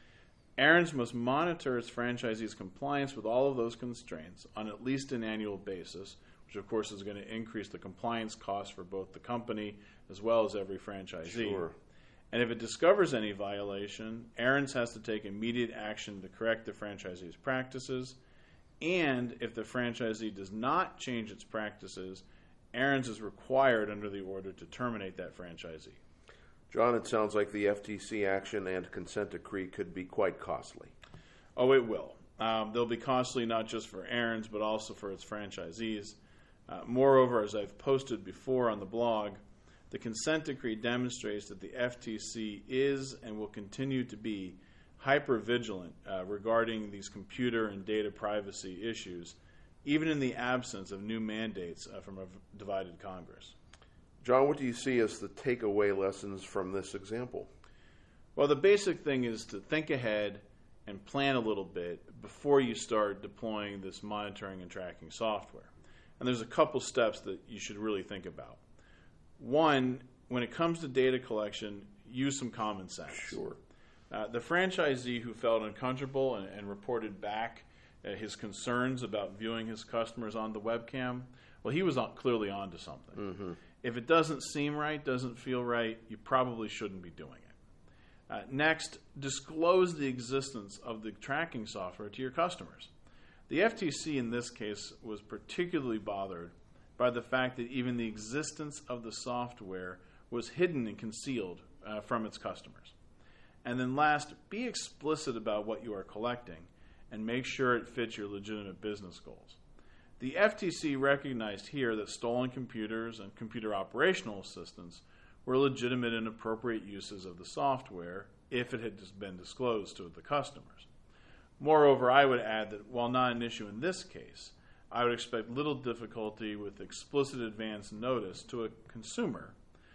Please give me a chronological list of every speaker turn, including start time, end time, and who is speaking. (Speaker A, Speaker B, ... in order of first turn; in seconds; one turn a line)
Speaker A: 0.6-11.7
Speaker B: 11.2-11.8
Speaker A: 12.3-18.2
Speaker A: 18.8-26.0
Speaker B: 26.7-30.9
Speaker A: 31.6-53.5
Speaker B: 54.2-57.5
Speaker A: 58.4-68.6
Speaker A: 69.4-73.4
Speaker B: 73.1-73.6
Speaker A: 74.1-83.3
Speaker B: 83.2-83.6
Speaker A: 83.8-87.5
Speaker A: 88.3-92.9
Speaker A: 93.5-103.0
Speaker A: 103.6-109.6
Speaker A: 110.2-120.9
Speaker A: 121.6-129.6